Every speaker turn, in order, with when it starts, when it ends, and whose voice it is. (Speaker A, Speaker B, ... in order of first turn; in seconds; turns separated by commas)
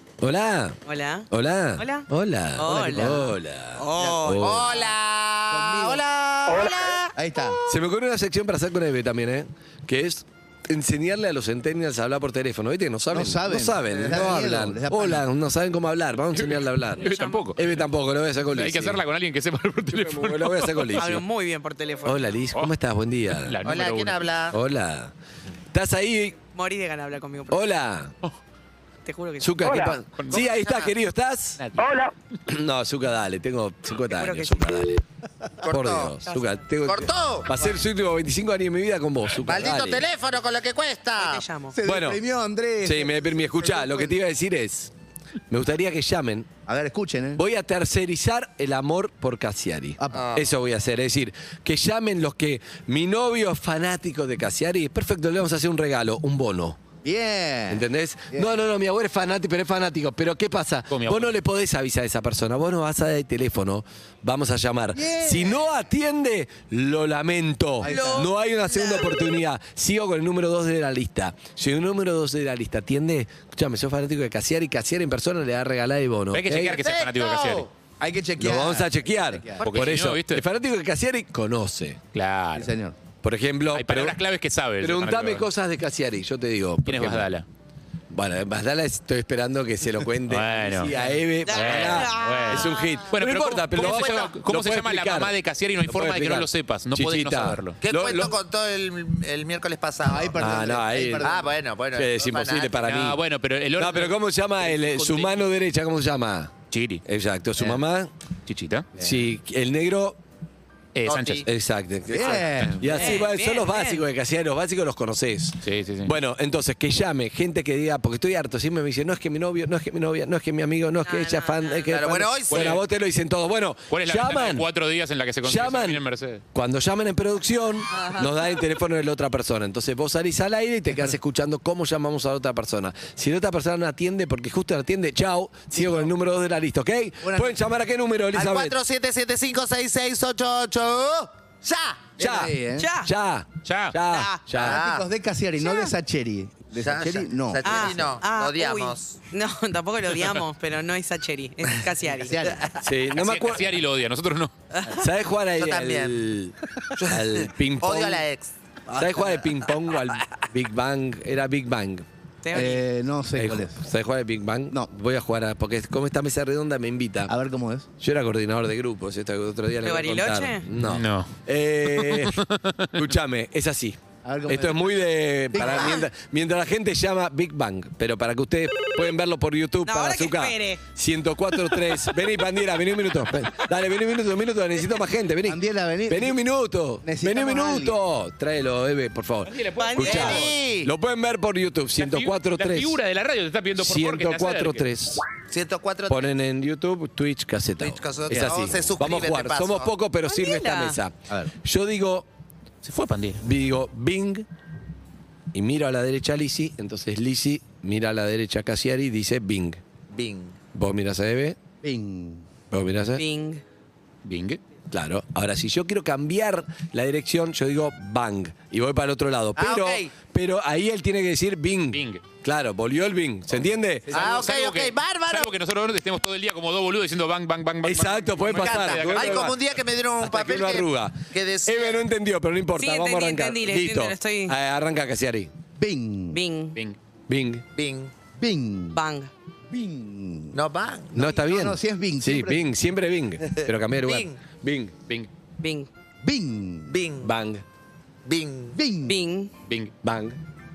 Speaker A: 0.2-0.8, Speaker B: 0.8-3.2, Speaker A: 1.3-4.7, Speaker C: 2.7-3.3, Speaker B: 3.8-4.5, Speaker C: 4.0-4.3, Speaker D: 4.4-7.1, Speaker C: 5.5-6.0, Speaker C: 7.1-7.6, Speaker A: 7.7-19.0, Speaker C: 13.1-15.2, Speaker D: 13.9-14.3, Speaker E: 16.4-17.6, Speaker B: 17.0-17.5, Speaker E: 18.5-21.1, Speaker A: 19.9-21.2, Speaker B: 20.9-22.3, Speaker A: 22.0-23.6, Speaker E: 23.4-24.2, Speaker D: 23.6-24.6, Speaker A: 24.5-25.1, Speaker A: 25.7-26.4, Speaker B: 26.5-27.6, Speaker A: 27.5-28.1, Speaker B: 29.0-29.9, Speaker A: 29.4-31.6, Speaker E: 30.1-30.4, Speaker D: 30.3-30.9, Speaker E: 31.6-32.0, Speaker A: 32.5-35.0, Speaker B: 34.1-34.9, Speaker D: 35.6-36.1, Speaker A: 35.7-40.0, Speaker B: 36.3-36.5, Speaker D: 36.8-37.5, Speaker D: 39.4-41.4, Speaker B: 41.2-41.8, Speaker C: 41.7-44.1, Speaker A: 41.8-42.2, Speaker A: 42.8-44.9, Speaker A: 45.5-46.5, Speaker C: 46.7-47.4, Speaker A: 47.4-56.8, Speaker C: 50.0-50.2, Speaker D: 50.1-50.5, Speaker C: 57.0-58.5, Speaker A: 57.7-76.8, Speaker E: 60.9-61.3, Speaker C: 64.9-65.6, Speaker C: 67.8-68.3, Speaker B: 67.8-69.1, Speaker E: 76.3-77.7, Speaker D: 76.6-77.7, Speaker C: 78.0-79.7, Speaker A: 78.4-82.0, Speaker E: 79.6-80.4, Speaker E: 82.1-82.7, Speaker C: 82.5-83.0, Speaker A: 83.2-84.2, Speaker E: 83.7-85.5, Speaker A: 84.8-87.2, Speaker E: 86.8-87.5, Speaker A: 88.1-95.3, Speaker E: 90.3-90.9, Speaker C: 90.8-91.2, Speaker B: 91.4-92.9, Speaker E: 91.5-97.8, Speaker A: 95.8-98.3, Speaker D: 97.8-102.8, Speaker C: 100.0-101.5, Speaker A: 100.4-101.3, Speaker A: 101.9-103.2, Speaker E: 102.8-104.2, Speaker A: 103.8-108.1, Speaker E: 104.7-105.3, Speaker E: 106.7-107.0, Speaker E: 108.5-108.9, Speaker C: 109.0-109.3, Speaker A: 109.0-110.2, Speaker E: 110.9-111.5, Speaker D: 111.0-111.5, Speaker A: 111.5-124.7, Speaker C: 112.1-113.1, Speaker B: 112.8-114.0, Speaker E: 115.6-116.1, Speaker B: 121.0-121.9, Speaker D: 121.9-122.8, Speaker E: 122.5-122.8, Speaker E: 123.9-126.4, Speaker A: 125.4-126.0, Speaker A: 126.5-138.8, Speaker B: 127.9-128.3, Speaker C: 137.2-137.6, Speaker D: 138.3-142.1, Speaker C: 142.2-142.9, Speaker A: 142.2-144.8, Speaker B: 142.8-143.1, Speaker E: 143.6-143.9, Speaker B: 144.1-144.5, Speaker D: 144.6-145.1, Speaker C: 144.6-148.1, Speaker D: 146.8-149.2, Speaker B: 147.6-152.5, Speaker C: 152.2-152.6, Speaker A: 152.8-153.8, Speaker E: 153.1-154.5, Speaker B: 154.7-155.0, Speaker A: 154.9-156.5, Speaker D: 155.6-156.2, Speaker D: 156.9-159.0, Speaker A: 157.1-158.2, Speaker A: 158.9-162.0, Speaker B: 162.4-162.8, Speaker C: 162.5-163.8, Speaker A: 163.4-167.3, Speaker C: 167.3-167.9, Speaker A: 168.0-172.4, Speaker B: 169.8-170.7, Speaker E: 170.8-171.3, Speaker E: 172.0-172.9, Speaker A: 172.9-192.9, Speaker C: 174.2-174.9, Speaker C: 175.5-176.0, Speaker B: 179.8-180.8, Speaker C: 185.4-186.4, Speaker C: 187.0-188.0, Speaker E: 189.5-190.3, Speaker B: 189.8-190.5, Speaker D: 190.0-190.9, Speaker E: 192.0-194.8, Speaker A: 193.8-195.2, Speaker D: 195.5-196.3, Speaker A: 196.1-202.2, Speaker D: 197.8-199.9, Speaker B: 200.2-201.0, Speaker E: 202.8-203.4, Speaker A: 203.4-204.4, Speaker A: 205.5-209.8, Speaker D: 210.1-210.6, Speaker A: 210.7-211.6, Speaker C: 211.8-212.4, Speaker A: 212.7-213.2, Speaker B: 213.2-213.6, Speaker E: 214.2-214.6, Speaker A: 214.9-224.3, Speaker D: 219.6-220.1, Speaker E: 221.9-222.2, Speaker D: 224.1-225.5, Speaker E: 224.1-229.6, Speaker A: 227.8-229.6, Speaker D: 228.4-232.0, Speaker A: 230.2-235.5, Speaker B: 232.8-234.5, Speaker C: 235.8-236.4, Speaker B: 236.3-236.8, Speaker A: 237.3-237.6, Speaker D: 237.7-238.1, Speaker C: 238.4-239.0, Speaker B: 238.9-239.3, Speaker C: 239.7-240.6, Speaker D: 240.5-241.2, Speaker A: 241.1-244.9, Speaker C: 241.2-242.7, Speaker D: 243.5-244.3, Speaker B: 245.6-245.9, Speaker C: 246.2-247.0, Speaker D: 246.9-247.3, Speaker A: 247.2-247.6, Speaker D: 248.2-248.8, Speaker C: 248.7-249.2, Speaker B: 249.1-249.5, Speaker E: 249.7-249.9, Speaker A: 250.0-250.4